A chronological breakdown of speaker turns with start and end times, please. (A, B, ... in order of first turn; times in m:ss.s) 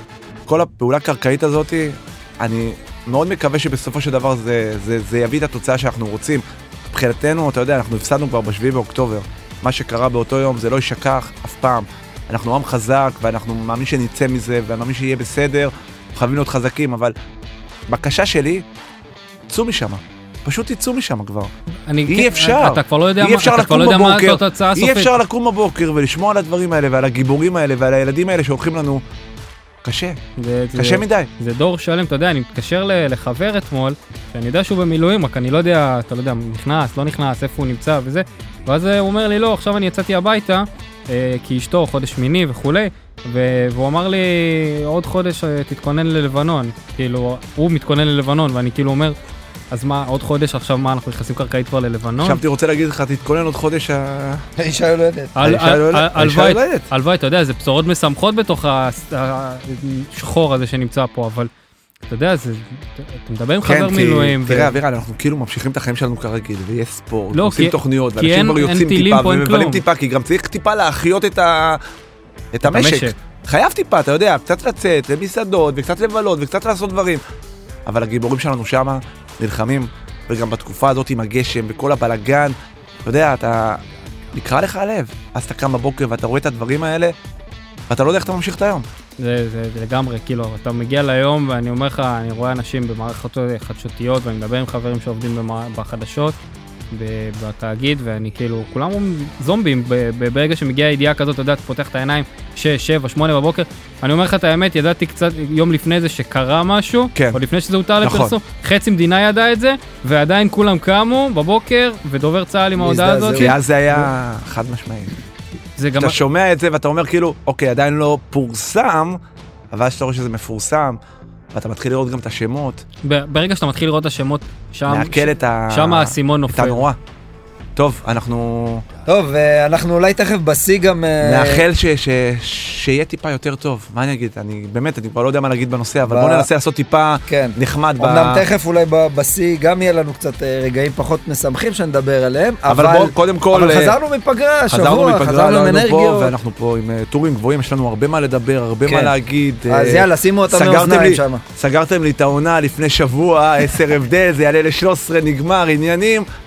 0:00.5-0:17.1 A
0:17.9-0:18.6 A
0:19.5-0:21.5 A
0:21.9-0:25.1 B
0:22.1-0:29.0 A
0:29.8-0:30.2 A
0:30.4-0:49.2 B
0:30.8-0:31.3 A
0:49.7-0:52.4 B
0:52.2-0:54.4 A
0:54.6-0:55.3 C
0:55.4-1:01.5 B
0:55.4-0:56.9 A
1:02.1-1:04.8 B
1:03.6-1:11.8 A
1:07.3-1:09.8 B
1:12.5-1:17.2 A
1:12.6-1:13.1 B
1:17.8-1:23.8 A
1:24.3-1:27.1 A
1:27.9-1:28.8 A
1:29.2-1:36.4 B
1:36.9-1:53.5 B
1:48.0-1:48.4 A
1:52.8-1:54.0 C
1:53.4-1:55.2 A
1:55.8-1:56.2 B
1:56.0-1:59.2 A
1:59.7-2:01.0 A
2:01.5-2:02.8 A
2:03.0-2:06.8 B
2:04.9-2:07.0 A
2:07.8-2:08.8 A
2:09.0-2:11.6 C
2:11.2-2:18.4 A
2:16.0-2:16.5 C
2:17.3-2:26.3 C
2:22.7-2:23.9 A
2:24.7-2:36.2 A
2:28.8-2:29.1 C
2:29.7-2:31.4 C